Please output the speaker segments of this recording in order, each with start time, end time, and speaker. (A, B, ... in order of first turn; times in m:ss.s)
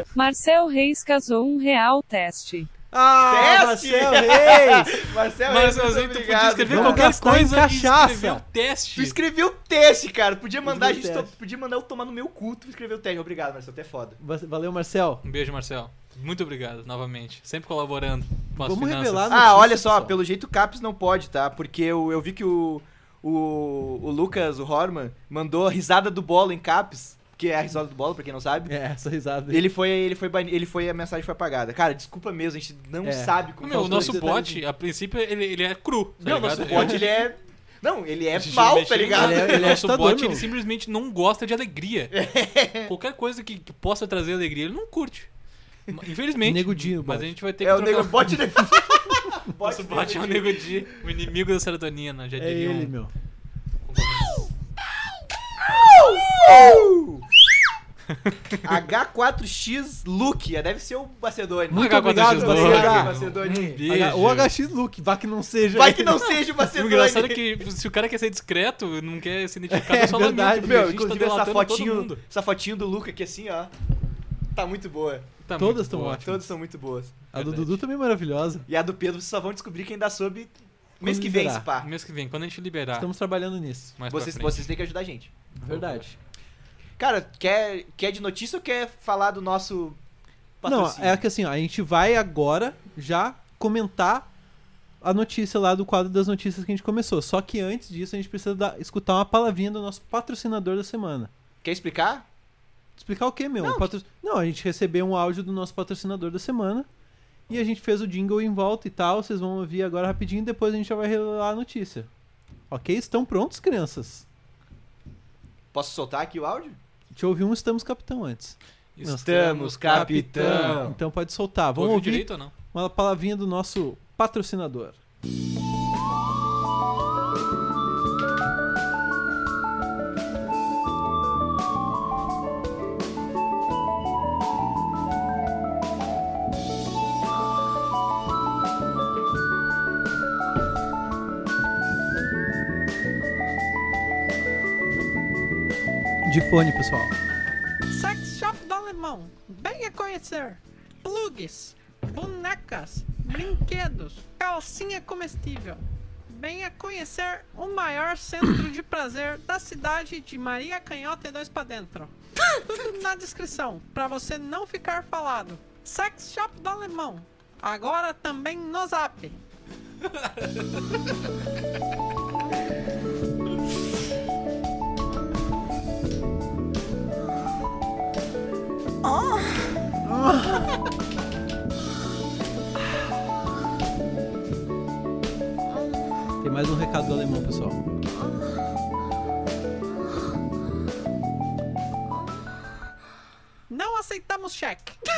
0:00.1-0:02.7 A
0:02.9-0:04.9 B
0:03.2-0:07.1 C
0:05.5-0:09.2 D
0:06.6-0:08.4 B
0:09.0-0:14.2 C
0:10.6-0:11.3 B
0:14.2-0:15.2 B
0:15.2-0:19.3 D
0:18.6-0:20.2 B
0:19.3-0:28.7 C
0:28.6-0:29.7 B
0:29.5-0:34.2 C
0:33.0-0:34.6 B
0:33.6-0:37.1 D
0:36.2-0:39.8 C
0:36.7-0:37.0 B
0:38.3-0:42.1 D
0:39.1-0:40.5 B
0:42.1-0:42.9 C
0:42.9-0:45.3 D
0:45.9-0:48.4 D
0:46.4-0:47.3 B
0:47.6-0:50.8 C
0:49.6-0:52.9 D
0:52.4-0:53.1 B
0:53.9-0:54.4 D
0:55.7-0:57.3 C
0:58.1-0:58.4 D
0:58.6-1:03.8 C
1:01.7-1:03.3 B
1:01.7-1:04.5 D
1:03.8-1:06.3 B
1:05.7-1:07.4 C
1:06.3-1:12.2 D
1:09.7-1:10.9 B
1:10.6-1:13.7 C
1:14.5-1:15.3 C
1:15.4-1:16.3 D
1:15.6-1:16.5 B
1:16.2-1:17.2 C
1:17.3-1:17.8 D
1:17.3-1:18.6 B
1:18.7-1:21.9 C
1:21.0-1:21.7 B
1:21.8-1:23.1 D
1:23.0-1:24.0 B
1:24.0-1:24.7 D
1:24.1-1:25.3 C
1:25.6-1:26.2 B
1:25.6-1:26.0 D
1:27.0-1:30.0 C
1:30.6-1:31.2 C
1:30.6-1:34.3 B
1:35.0-1:41.3 B
1:41.6-1:42.2 C
1:43.0-1:46.9 B
1:43.6-1:43.9 C
1:47.5-1:52.1 B
1:52.7-1:54.2 B
1:55.7-1:56.8 C
1:57.1-2:05.0 B
1:59.0-2:00.8 D
1:59.2-2:01.0 C
2:01.7-2:02.5 D
2:26.2-2:27.1 B
2:27.9-2:49.4 E
3:00.0-3:00.7 B
3:06.4-3:07.8 B
3:13.7-3:15.0 E